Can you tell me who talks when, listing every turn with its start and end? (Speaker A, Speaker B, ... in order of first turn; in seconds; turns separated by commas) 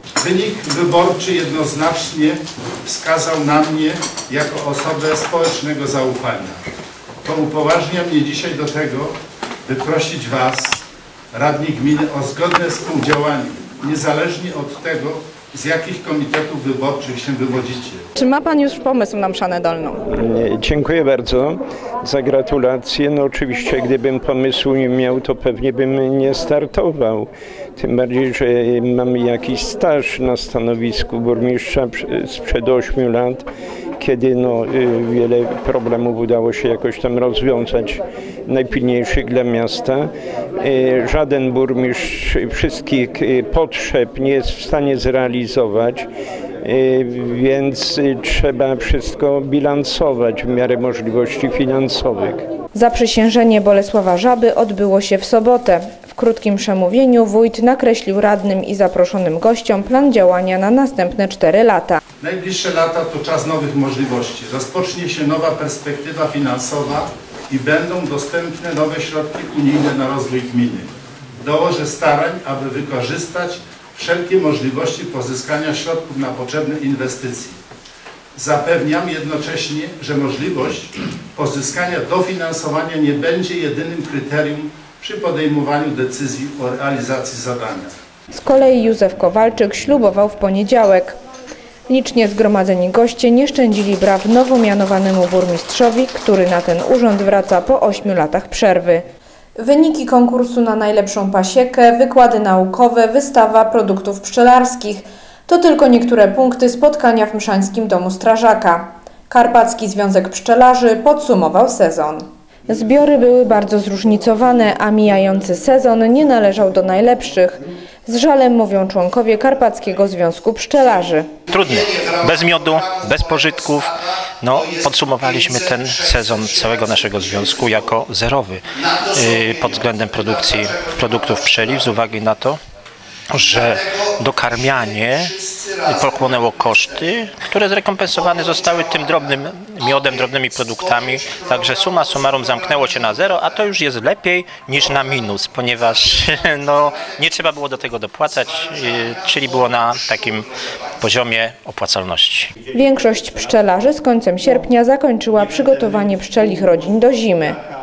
Speaker A: 0.2-6.6, Speaker A: 7.2-9.1, Speaker A: 9.7-10.8, Speaker A: 11.3-18.1, Speaker B: 18.1-20.0, Speaker C: 20.1-33.4, Speaker C: 34.0-46.1, Speaker C: 46.6-52.4, Speaker B: 52.7-62.0, Speaker A: 62.2-70.9, Speaker A: 71.4-77.6, Speaker A: 78.3-87.9, Speaker B: 88.3-91.2, Speaker B: 91.9-99.0, Speaker B: 99.6-121.3, Speaker D: 121.5-132.6, Speaker D: 133.3-150.5, Speaker D: 151.0-152.5, Speaker B: 152.7-157.6